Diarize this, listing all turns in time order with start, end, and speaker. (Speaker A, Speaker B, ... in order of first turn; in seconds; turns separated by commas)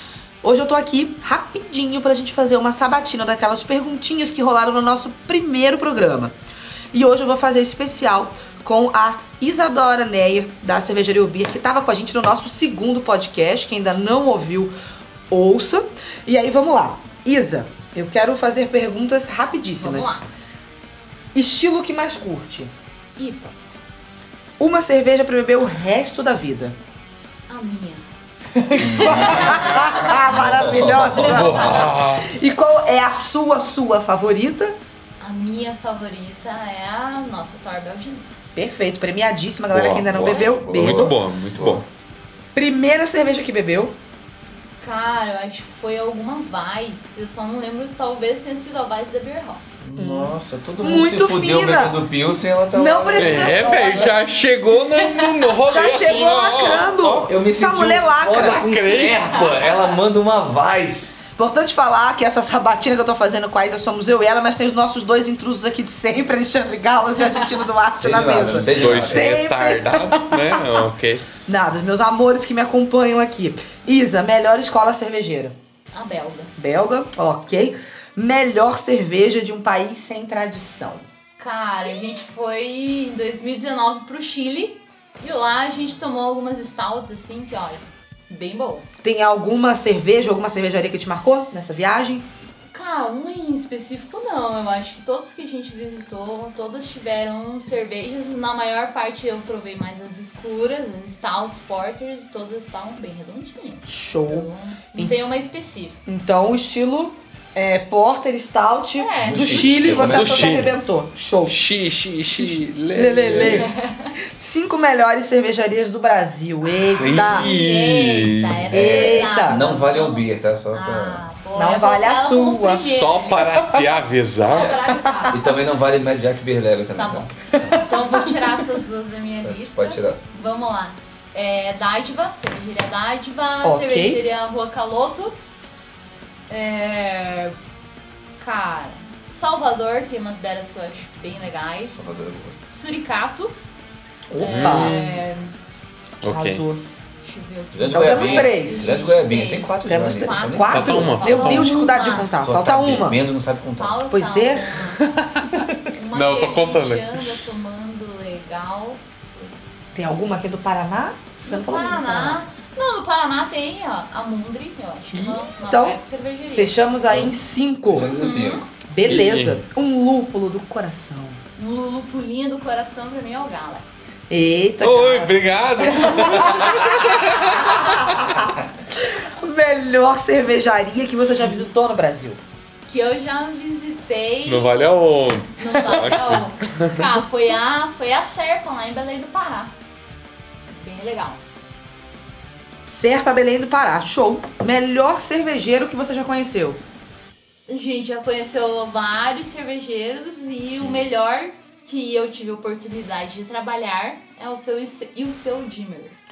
Speaker A: 0.4-6.3, Speaker A: 6.9-14.7, Speaker A: 15.3-20.2, Speaker B: 19.8-20.2, Speaker A: 21.3-22.7, Speaker B: 23.2-23.8, Speaker A: 24.6-26.8, Speaker B: 27.5-28.1, Speaker A: 28.6-34.8, Speaker B: 28.7-30.3, Speaker C: 28.8-29.6, Speaker C: 30.3-31.5, Speaker D: 31.3-32.3, Speaker B: 35.2-38.3, Speaker A: 38.6-41.1, Speaker D: 39.7-41.9, Speaker C: 40.1-41.8, Speaker B: 40.2-40.7, Speaker A: 42.5-44.0, Speaker B: 44.8-49.7, Speaker C: 49.8-53.6, Speaker A: 50.0-52.0, Speaker A: 52.7-54.2, Speaker D: 53.1-57.3, Speaker A: 55.7-59.2, Speaker C: 57.3-61.1, Speaker D: 58.3-59.7, Speaker B: 59.3-59.9, Speaker A: 61.4-70.7, Speaker B: 67.2-67.7, Speaker C: 68.0-69.4, Speaker D: 68.7-71.3, Speaker A: 71.4-75.5, Speaker B: 75.9-76.5, Speaker A: 76.6-81.0, Speaker B: 81.4-89.0, Speaker A: 89.0-92.2, Speaker B: 92.7-106.0, Speaker A: 103.9-105.1, Speaker A: 106.1-111.6, Speaker B: 109.0-110.2, Speaker C: 109.2-110.7, Speaker D: 110.1-110.8, Speaker D: 111.5-113.7, Speaker A: 112.4-113.7, Speaker B: 113.4-114.1, Speaker A: 114.4-117.5, Speaker D: 116.9-118.7, Speaker B: 117.2-123.5, Speaker C: 118.7-121.2, Speaker A: 118.7-119.6, Speaker A: 121.5-123.0, Speaker D: 122.8-124.8, Speaker A: 123.6-123.8, Speaker B: 124.5-125.7, Speaker C: 124.5-127.6, Speaker B: 127.0-135.3, Speaker A: 127.6-128.4, Speaker C: 129.4-130.2, Speaker A: 133.6-134.2, Speaker B: 136.5-137.5, Speaker B: 138.4-142.1, Speaker C: 141.9-142.6, Speaker B: 142.7-143.6, Speaker A: 144.3-145.2, Speaker B: 144.4-145.5, Speaker D: 144.5-144.9, Speaker D: 146.2-146.6, Speaker A: 146.2-146.8, Speaker B: 147.2-152.4, Speaker C: 147.7-154.0, Speaker A: 147.9-149.0, Speaker A: 149.9-153.2, Speaker D: 150.7-151.4, Speaker B: 153.8-155.0, Speaker A: 154.1-154.8, Speaker D: 155.5-157.3, Speaker B: 155.9-159.7, Speaker A: 159.9-162.4, Speaker B: 161.4-166.8, Speaker A: 165.1-166.0, Speaker A: 166.5-168.1, Speaker C: 167.9-168.6, Speaker B: 168.1-168.7, Speaker A: 168.9-171.4, Speaker D: 169.1-169.6, Speaker B: 171.6-174.1, Speaker A: 174.3-178.5, Speaker D: 174.8-178.4, Speaker A: 179.4-182.4, Speaker B: 182.9-185.0, Speaker D: 184.5-187.1, Speaker B: 185.6-189.7, Speaker B: 190.7-191.4, Speaker A: 192.9-196.8, Speaker B: 197.7-206.2